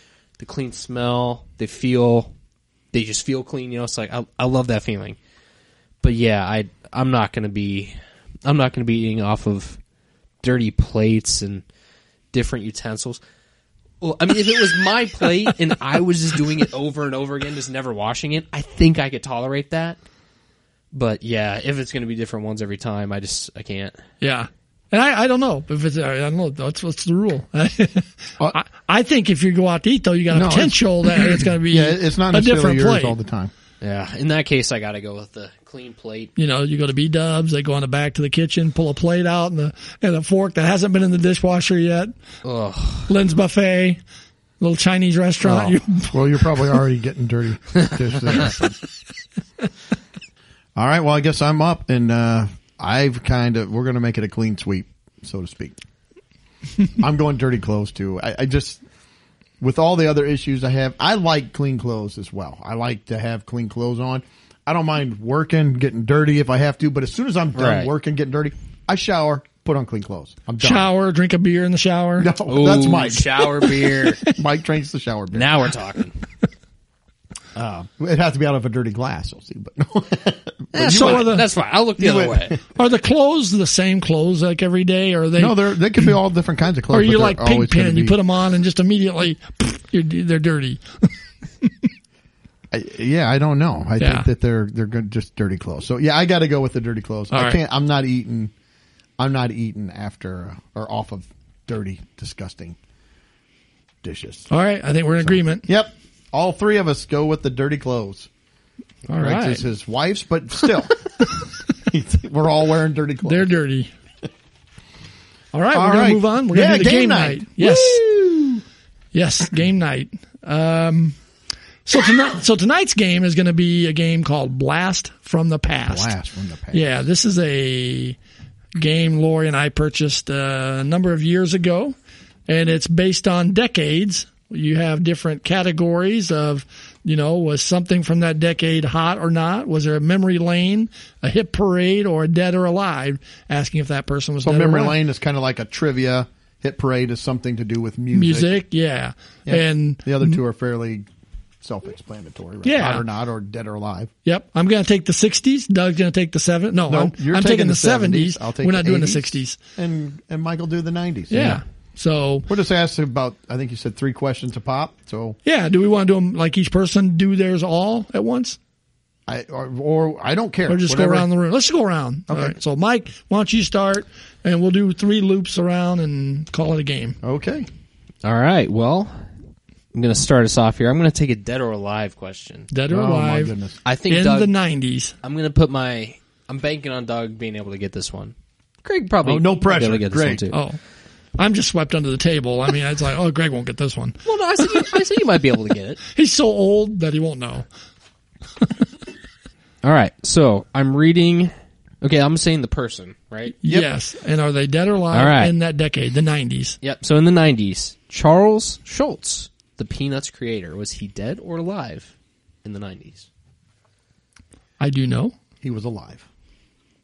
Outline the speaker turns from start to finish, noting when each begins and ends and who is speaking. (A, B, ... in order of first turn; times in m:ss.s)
0:00.4-0:02.3 A
0:02.9-0:05.2 A
0:06.0-0:09.8 A
0:10.4-0:11.6 A
0:12.3-0:13.2 A
0:14.0-0:20.0 A
0:20.9-0:24.0 A
0:24.2-0:33.2 B
0:30.3-0:33.5 C
0:33.8-0:36.3 A
0:36.4-0:42.1 B
0:42.4-0:43.1 A
0:43.1-0:44.0 B
0:44.6-0:46.7 B
0:45.4-0:48.8 C
0:50.8-0:55.8 C
0:57.0-0:58.8 C
0:59.6-1:10.9 C
1:07.6-1:07.9 A
1:10.6-1:12.3 B
1:12.2-1:15.5 C
1:12.5-1:14.2 A
1:15.3-1:16.2 A
1:17.6-1:21.4 C
1:20.7-1:22.6 A
1:20.8-1:21.5 B
1:22.0-1:22.6 C
1:22.8-1:26.1 B
1:25.4-1:28.2 C
1:26.9-1:31.1 B
1:32.7-1:38.5 C
1:34.0-1:34.3 B
1:37.3-1:37.6 B
1:39.2-1:42.8 C
1:44.0-1:44.5 C
1:44.5-1:45.7 B
1:45.2-1:48.3 C
1:49.1-1:49.6 B
1:49.2-1:51.2 C
1:51.8-1:53.5 C
1:53.2-1:53.9 B
1:55.5-1:58.0 B
1:55.7-1:58.6 C
1:59.1-2:01.2 B
2:01.9-2:06.1 B
2:05.9-2:06.9 C
2:06.7-2:08.2 B
2:08.8-2:12.0 B
2:12.5-2:25.0 B
2:24.4-2:28.5 C
2:28.1-2:30.4 B
2:29.5-2:31.1 C
2:31.6-2:34.1 C
2:32.6-2:33.0 B
2:34.2-2:39.6 B
2:36.9-2:41.6 C
2:41.3-2:42.5 B
2:42.5-2:45.4 C
2:45.4-2:48.6 B
2:49.3-2:51.3 C
2:50.7-2:57.2 B
2:52.3-2:52.6 C
2:57.2-2:57.7 C
2:58.2-2:59.1 A
2:59.9-3:02.7 A
3:02.7-3:03.6 B
3:02.9-3:03.8 C
3:03.8-3:04.5 A
3:04.1-3:05.2 B
3:05.2-3:10.6 A
3:09.2-3:10.5 C
3:10.5-3:10.8 B
3:11.4-3:14.9 B
3:14.2-3:16.0 A
3:16.1-3:17.7 B
3:19.8-3:23.6 A
3:23.6-3:26.8 B
3:23.6-3:23.9 C
3:25.1-3:25.5 A
3:26.8-3:32.1 A
3:32.6-3:33.3 A
3:34.8-3:35.4 B
3:35.6-3:36.3 C